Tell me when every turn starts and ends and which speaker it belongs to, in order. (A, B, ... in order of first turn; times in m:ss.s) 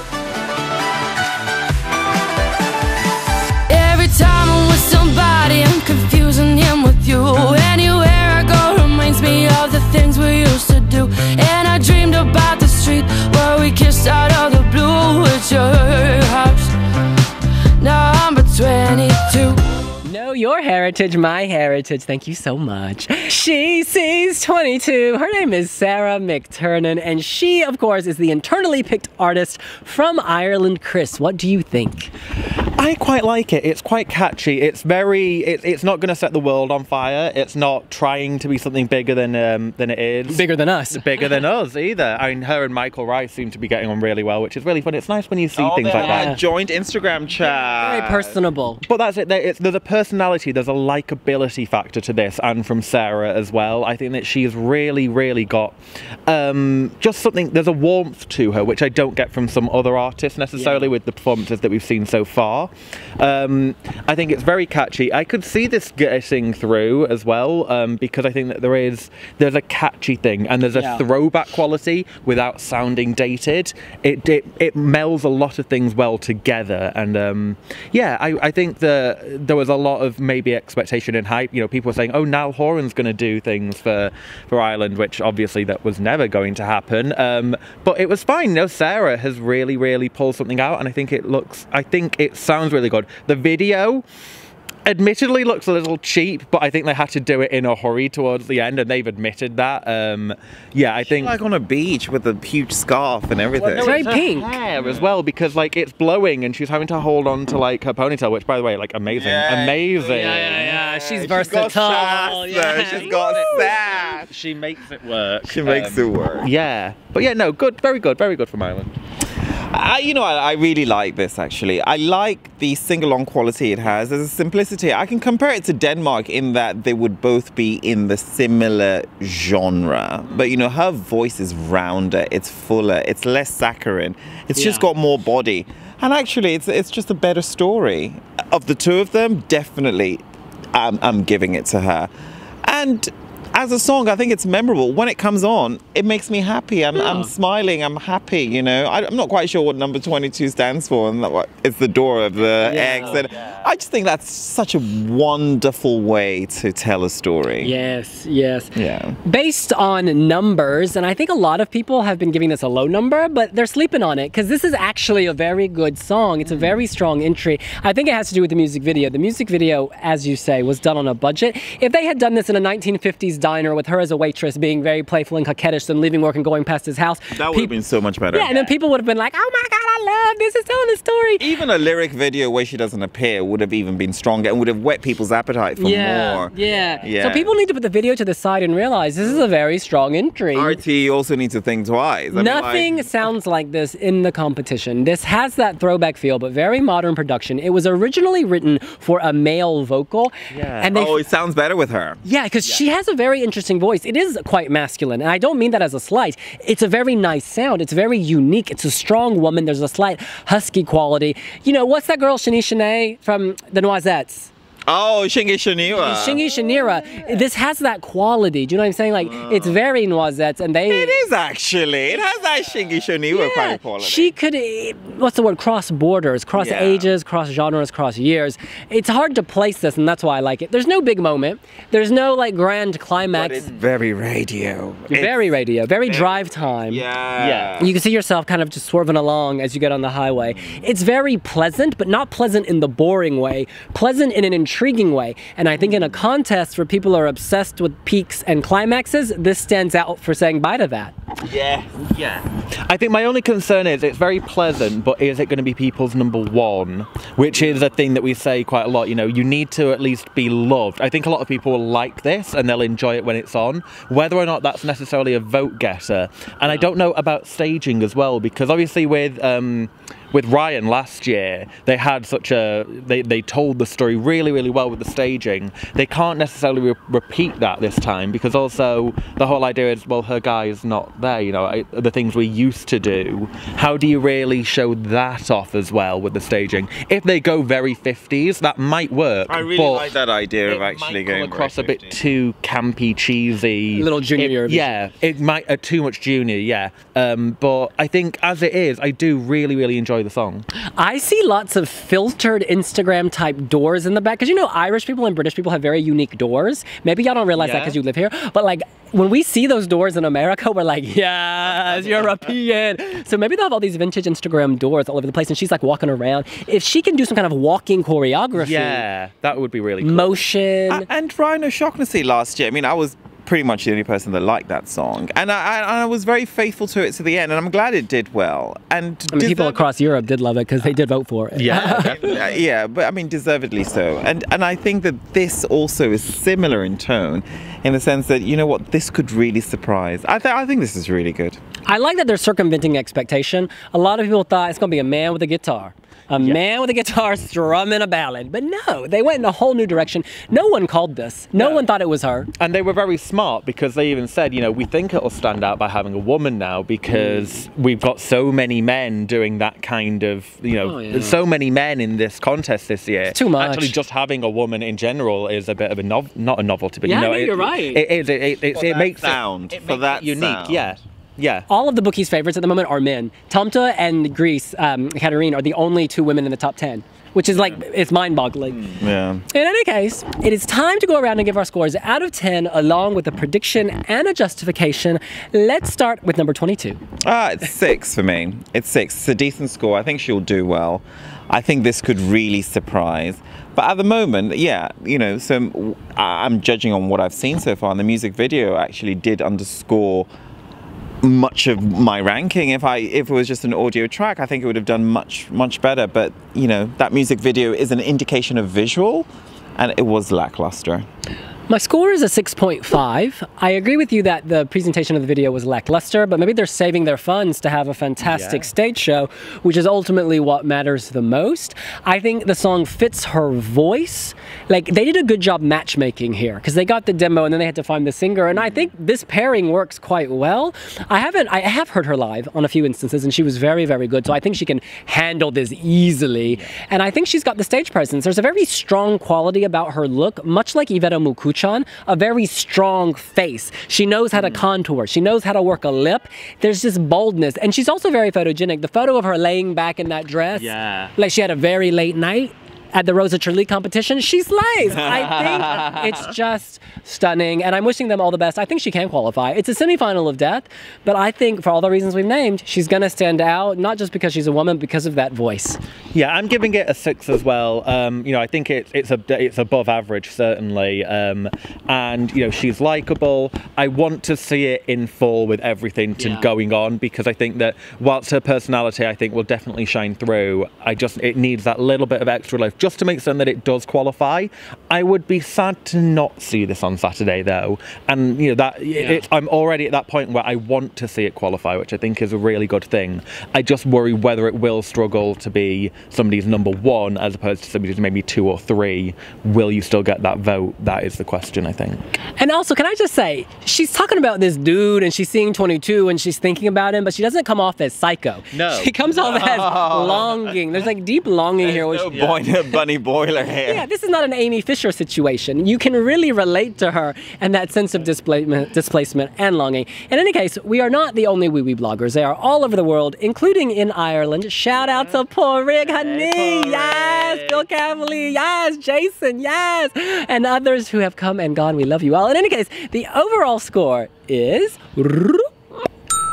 0:03.7-0:16.7 A
0:17.8-0:19.6 A
0:20.0-0:32.1 B
0:32.8-0:46.4 C
0:40.3-0:41.2 B
0:45.6-0:48.4 D
0:45.9-0:46.4 B
0:47.4-0:48.8 B
0:48.8-1:34.0 C
1:00.6-1:00.9 B
1:10.7-1:11.0 B
1:34.8-1:41.3 C
1:41.0-1:44.0 D
1:43.5-1:58.9 C
1:43.8-1:44.5 B
1:44.7-1:45.1 D
1:49.1-1:54.3 D
1:50.1-1:53.7 B
1:55.4-1:56.5 D
1:59.7-2:20.2 D
2:14.6-2:14.8 B
2:20.7-2:22.1 D
2:22.6-2:37.7 D
2:27.0-2:27.3 B
2:32.6-2:33.2 B
2:32.8-2:33.7 C
2:37.6-2:57.7 B
2:38.7-2:39.2 D
2:57.3-2:58.7 D
2:58.3-3:01.4 B
3:01.4-3:07.5 D
3:05.8-3:10.8 B
3:10.5-3:13.1 D
3:12.3-3:21.3 B
3:20.5-3:20.9 C
3:20.9-3:22.2 D
3:22.2-3:34.5 B
3:34.9-3:37.4 D
3:35.9-3:41.2 B
3:39.2-3:39.8 D
3:40.9-3:44.3 D
3:43.3-3:53.7 B
3:46.5-3:47.1 D
3:53.3-3:55.5 D
3:55.1-3:57.0 B
3:56.0-3:57.9 D
3:57.4-3:57.8 C
3:57.8-4:11.1 B
4:05.8-4:06.1 D
4:11.5-4:12.1 D
4:12.1-4:50.1 C
4:49.5-4:52.2 D
4:50.6-5:00.6 C
4:53.9-4:54.9 B
5:01.0-5:19.0 B
5:07.5-5:08.0 C
5:18.6-5:20.4 C
5:20.0-5:21.0 B
5:20.9-5:29.8 D
5:29.3-5:32.3 B
5:31.6-5:32.6 C
5:31.7-5:41.6 D
5:41.9-5:52.5 B
5:51.5-5:51.8 C
5:52.6-6:11.7 C
5:57.1-5:57.4 B
6:00.8-6:01.4 B
6:03.3-6:04.0 B
6:07.0-6:08.0 B
6:08.7-6:10.9 D
6:11.7-6:19.0 B
6:18.8-6:19.4 D
6:19.5-6:27.0 B
6:27.2-6:40.3 D
6:41.2-6:51.0 D
6:51.7-7:45.8 B
6:58.2-6:58.7 C
7:24.4-7:24.6 C
7:30.5-7:31.1 C
7:35.0-7:36.2 C
7:46.1-8:22.0 C
7:56.2-7:56.5 B
8:22.4-8:32.2 B
8:28.5-8:29.7 C
8:29.5-8:30.3 D
8:31.6-8:33.8 D
8:32.1-8:32.4 C
8:33.6-8:55.5 B
8:44.7-8:45.2 C
8:45.8-8:47.6 C